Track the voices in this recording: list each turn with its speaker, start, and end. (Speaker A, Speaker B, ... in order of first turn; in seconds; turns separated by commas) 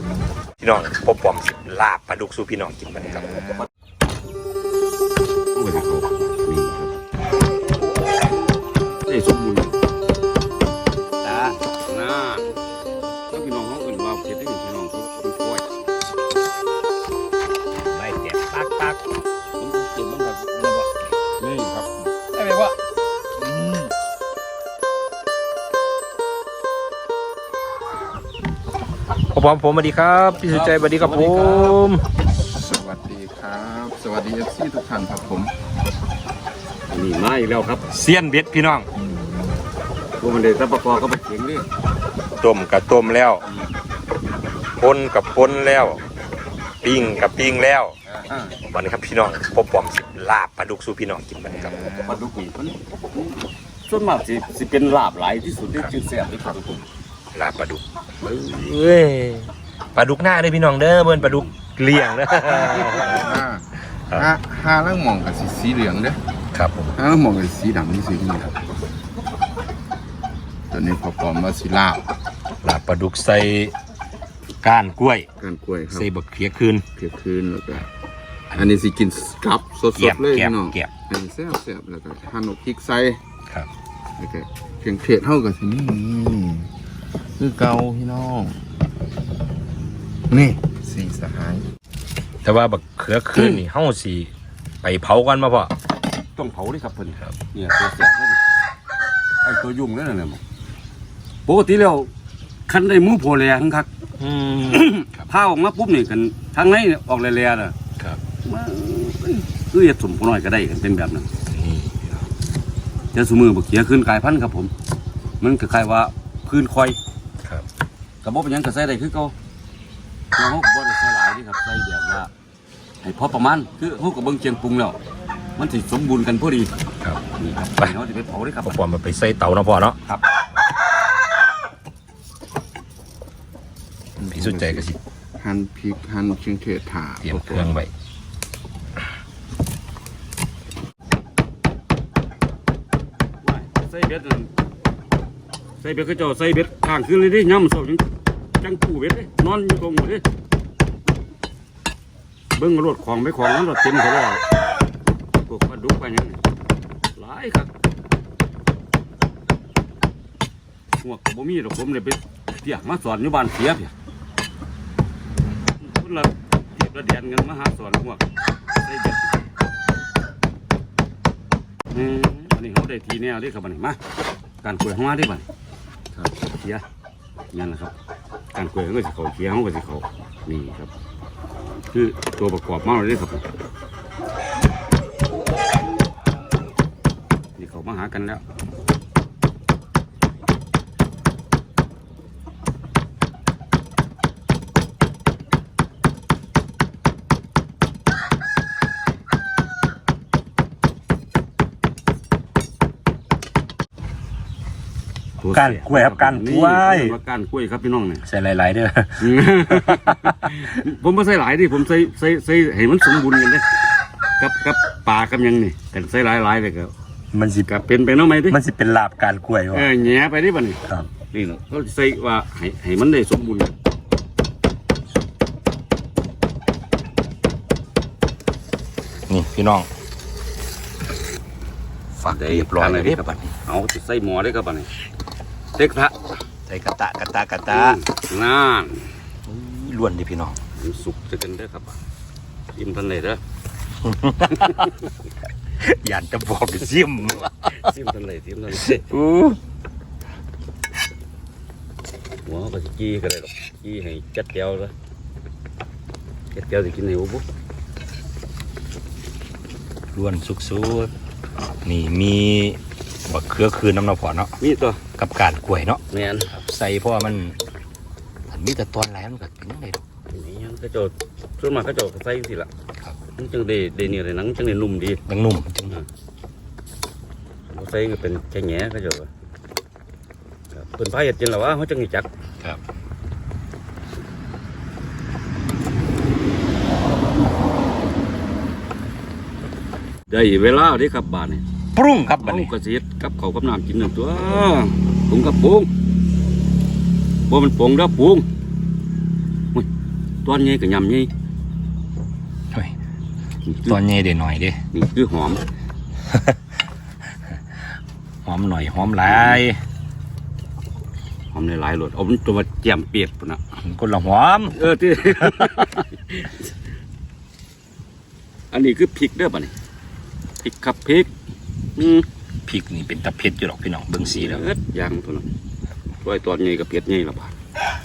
Speaker A: 0.6-3.3, Speaker B: 3.1-3.6, Speaker C: 5.5-7.0, Speaker C: 9.1-9.8, Speaker C: 11.2-12.5, Speaker C: 13.3-15.7, Speaker A: 17.8-19.0, Speaker C: 19.6-20.5, Speaker A: 20.6-21.0, Speaker C: 21.4-21.9, Speaker A: 22.1-22.8, Speaker A: 23.4-23.9, Speaker A: 29.3-32.0, Speaker C: 30.5-31.8, Speaker B: 32.5-35.5, Speaker C: 36.9-37.8, Speaker A: 37.9-38.9, Speaker C: 40.2-41.7, Speaker A: 42.4-43.4, Speaker A: 44.8-46.0, Speaker A: 46.8-48.0, Speaker C: 48.1-48.6, Speaker A: 48.6-51.7, Speaker B: 51.5-52.2, Speaker C: 52.0-56.8, Speaker A: 57.3-63.3, Speaker B: 62.4-66.2, Speaker A: 66.5-67.0, Speaker B: 67.0-68.5, Speaker B: 70.7-72.0, Speaker A: 72.6-73.8, Speaker A: 74.6-75.3, Speaker B: 75.4-76.1, Speaker A: 75.9-76.8, Speaker B: 77.0-77.9, Speaker B: 78.5-83.2, Speaker A: 80.0-80.9, Speaker B: 84.2-86.7, Speaker B: 87.4-88.6, Speaker B: 90.3-91.7, Speaker A: 92.4-95.7, Speaker C: 96.4-98.4, Speaker C: 99.4-100.4, Speaker C: 101.5-102.1, Speaker C: 102.7-103.9, Speaker A: 104.2-105.2, Speaker C: 104.7-107.8, Speaker C: 108.4-111.3, Speaker A: 111.5-112.2, Speaker C: 113.1-114.7, Speaker C: 115.4-117.0, Speaker C: 118.2-119.3, Speaker C: 120.4-122.3, Speaker C: 123.0-125.0, Speaker C: 125.6-126.7, Speaker C: 127.4-128.8, Speaker A: 128.6-130.0, Speaker B: 134.2-137.8, Speaker A: 134.3-135.0, Speaker A: 137.2-137.9, Speaker C: 143.4-144.5, Speaker C: 145.8-148.1, Speaker C: 148.6-150.2, Speaker C: 152.6-154.5, Speaker C: 155.5-156.4, Speaker C: 157.2-157.7, Speaker C: 161.0-163.9, Speaker C: 165.8-168.2, Speaker C: 168.8-169.5, Speaker C: 171.9-174.0, Speaker C: 174.6-175.4, Speaker C: 176.4-176.8, Speaker C: 177.5-177.9, Speaker C: 178.5-180.9, Speaker C: 181.9-183.4, Speaker C: 187.6-188.4, Speaker C: 205.4-208.2, Speaker A: 205.5-207.2, Speaker A: 208.2-210.7, Speaker C: 209.2-213.7, Speaker C: 214.4-216.9, Speaker A: 217.3-217.7, Speaker C: 217.7-218.6, Speaker A: 218.5-219.9, Speaker C: 219.7-223.7, Speaker A: 229.3-229.9, Speaker A: 232.2-233.5, Speaker C: 232.2-234.9, Speaker C: 235.8-236.2, Speaker A: 236.7-238.0, Speaker C: 237.7-239.1, Speaker A: 239.5-240.6, Speaker C: 240.8-242.0, Speaker C: 242.8-243.4, Speaker A: 244.0-244.9, Speaker C: 244.6-244.9, Speaker A: 245.8-247.7, Speaker C: 247.4-249.1, Speaker A: 249.1-249.4, Speaker C: 252.4-254.9, Speaker C: 256.5-257.4, Speaker A: 260.1-261.1, Speaker A: 261.8-264.5, Speaker C: 264.6-265.0, Speaker A: 265.2-267.6, Speaker C: 266.1-266.5, Speaker A: 268.5-270.0, Speaker C: 270.3-272.7, Speaker C: 273.4-275.2, Speaker A: 275.3-276.0, Speaker C: 277.7-279.3, Speaker C: 280.7-282.3, Speaker C: 290.3-291.6, Speaker A: 291.9-292.7, Speaker C: 292.4-295.9, Speaker C: 297.5-298.4, Speaker C: 300.4-301.3, Speaker C: 303.6-304.0, Speaker A: 303.9-304.8, Speaker C: 304.9-305.6, Speaker A: 306.3-306.6, Speaker A: 308.4-309.8, Speaker C: 311.5-313.6, Speaker A: 313.8-314.8, Speaker C: 314.7-316.7, Speaker A: 315.3-315.9, Speaker C: 318.7-319.7, Speaker C: 320.6-321.3, Speaker C: 322.0-322.3, Speaker A: 322.7-324.6, Speaker C: 324.2-325.5, Speaker C: 326.2-327.6